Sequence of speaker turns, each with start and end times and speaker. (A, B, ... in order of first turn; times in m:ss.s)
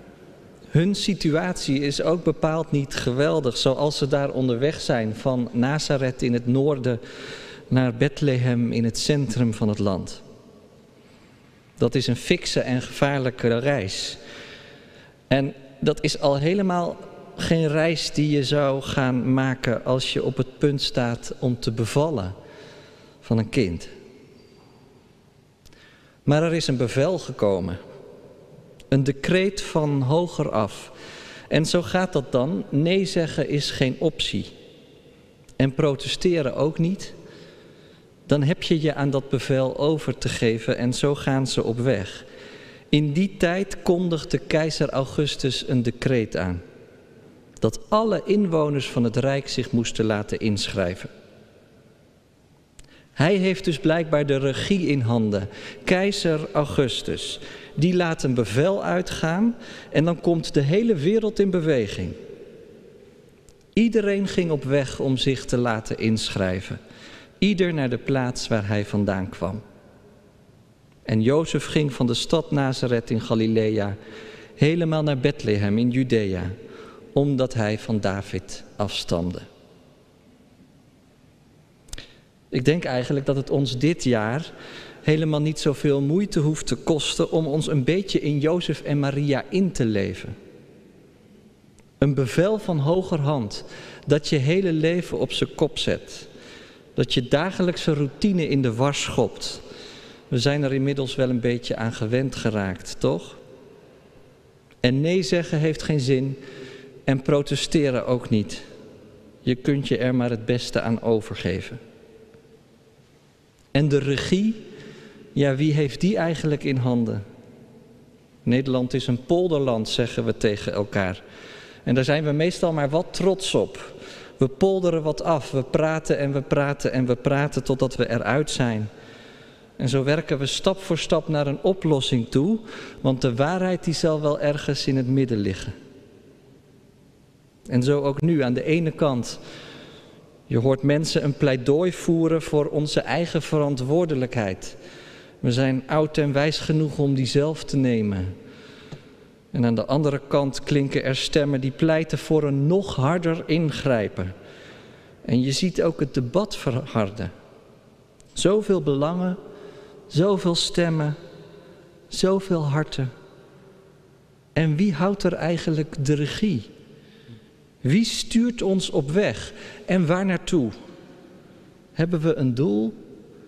0:00.7-0:07.0 A
0:07.7-0:10.2 A
0:11.8-0:14.2 A
0:15.3-0:22.3 A
0:23.2-0:23.9 A
0:26.2-0:27.8 A
0:28.9-0:30.9 A
0:31.5-0:34.5 A
0:35.6-0:37.1 A
0:38.3-0:42.2 A
0:42.9-0:46.6 A
0:47.6-0:51.1 A
0:53.2-1:02.1 A
1:03.8-1:06.8 A
1:07.4-1:09.6 A
1:11.0-1:14.0 A
1:14.6-1:16.5 A
1:17.1-1:19.4 A
1:22.5-1:24.5 A
1:25.0-1:30.3 A
1:32.0-1:36.3 A
1:37.0-1:39.6 A
1:40.3-1:43.4 A
1:44.8-1:46.4 A
1:47.1-1:48.6 A
1:49.4-1:51.8 A
1:53.7-1:54.6 A
1:55.3-1:57.2 A
1:58.4-2:01.2 A
2:01.8-2:08.9 A
2:09.8-2:15.7 A
2:17.7-2:19.4 A
2:20.5-2:24.8 A
2:25.4-2:28.3 A
2:29.5-2:34.3 A
2:35.2-2:37.3 A
2:38.3-2:39.4 A
2:40.1-2:41.2 A
2:42.1-2:43.1 A
2:44.5-2:46.7 A
2:47.8-2:50.7 A
2:52.0-2:52.9 A